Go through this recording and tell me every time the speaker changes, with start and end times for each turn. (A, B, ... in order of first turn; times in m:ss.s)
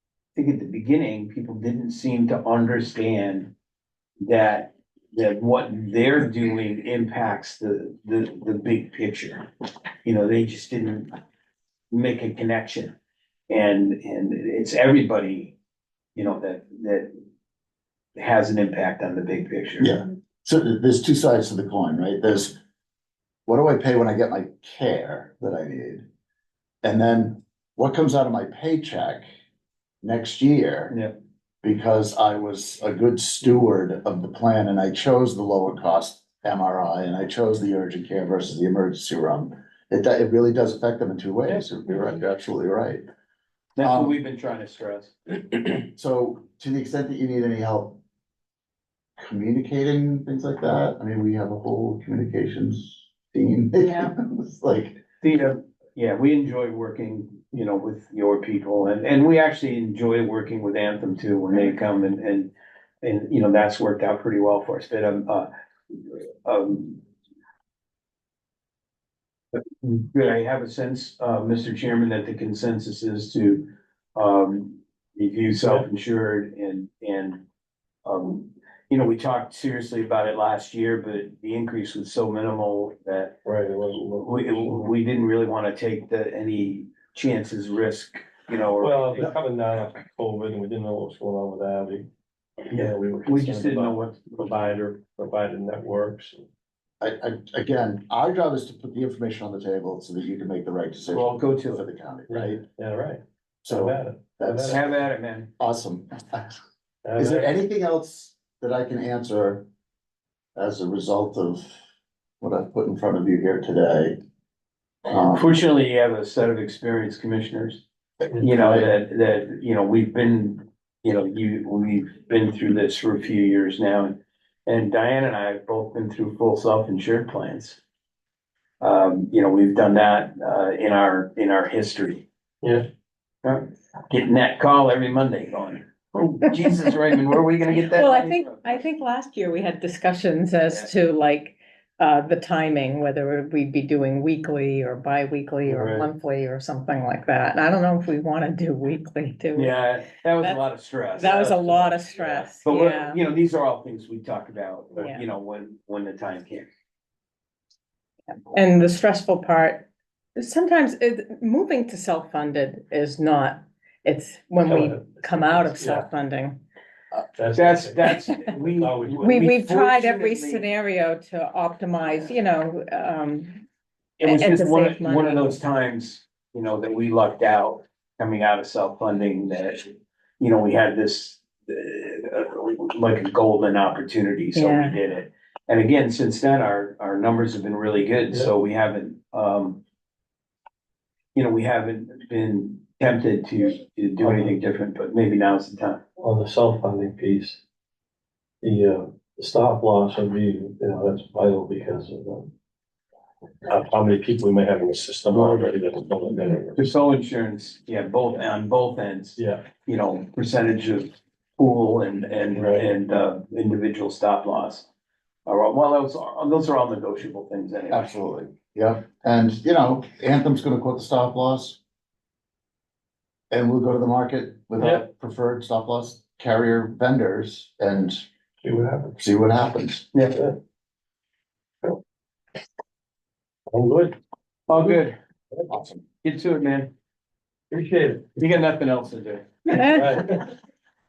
0:00.3-0:03.5 A
0:04.2-0:09.5 A
0:10.0-0:11.1 A
0:11.9-0:12.9 A
0:13.5-0:15.6 A
0:16.1-0:17.1 A
0:18.1-0:19.9 A
0:19.8-0:22.5 B
0:23.5-0:26.0 B
0:26.8-0:29.2 B
0:30.0-0:30.9 B
0:30.9-0:31.2 A
0:31.6-0:43.0 B
0:43.8-0:45.1 A
0:43.8-0:44.2 B
0:45.8-0:48.0 B
0:49.2-0:55.0 B
0:55.2-1:07.0 A
1:09.8-1:17.4 A
1:15.6-1:15.8 C
1:18.0-1:23.4 A
1:23.4-1:24.9 C
1:24.2-1:29.3 A
1:28.8-1:32.1 C
1:32.7-1:36.4 C
1:32.7-1:34.7 A
1:37.0-1:42.6 B
1:41.1-1:41.8 A
1:42.3-1:44.9 C
1:43.6-1:44.9 B
1:44.6-1:45.5 A
1:45.6-1:46.6 B
1:47.0-1:47.5 C
1:47.2-1:49.6 B
1:50.6-1:51.7 B
1:52.4-1:54.2 B
1:55.1-1:55.4 B
1:55.1-2:07.8 A
1:58.4-1:58.9 B
2:08.8-2:12.2 A
2:13.4-2:18.8 A
2:17.8-2:29.8 D
2:25.6-2:26.1 C
2:29.6-2:36.7 A
2:31.2-2:33.2 D
2:31.3-2:31.7 C
2:38.5-2:46.6 D
2:44.7-2:46.1 C
2:47.4-2:49.4 C
2:47.5-2:50.6 A
2:49.2-2:53.6 D
2:54.2-3:09.8 A
2:54.2-2:55.5 D
3:04.5-3:05.0 D
3:11.3-3:16.0 A
3:14.2-3:14.6 C
3:16.2-3:17.6 C
3:18.6-3:22.5 C
3:23.6-3:26.8 C
3:25.3-3:25.7 A
3:26.7-3:34.9 A
3:29.4-3:29.6 C
3:32.5-3:32.9 C
3:35.4-3:38.1 A
3:37.9-3:41.8 B
3:43.5-3:48.2 B
3:44.8-3:45.0 C
3:48.6-3:49.2 C
3:49.2-3:50.1 B
3:53.7-3:54.2 C
3:54.7-3:55.2 A
3:55.7-3:56.0 B
3:56.2-3:56.9 A
3:57.7-3:58.2 C
3:58.4-3:59.9 A
3:59.6-4:00.0 D
3:59.8-4:00.5 C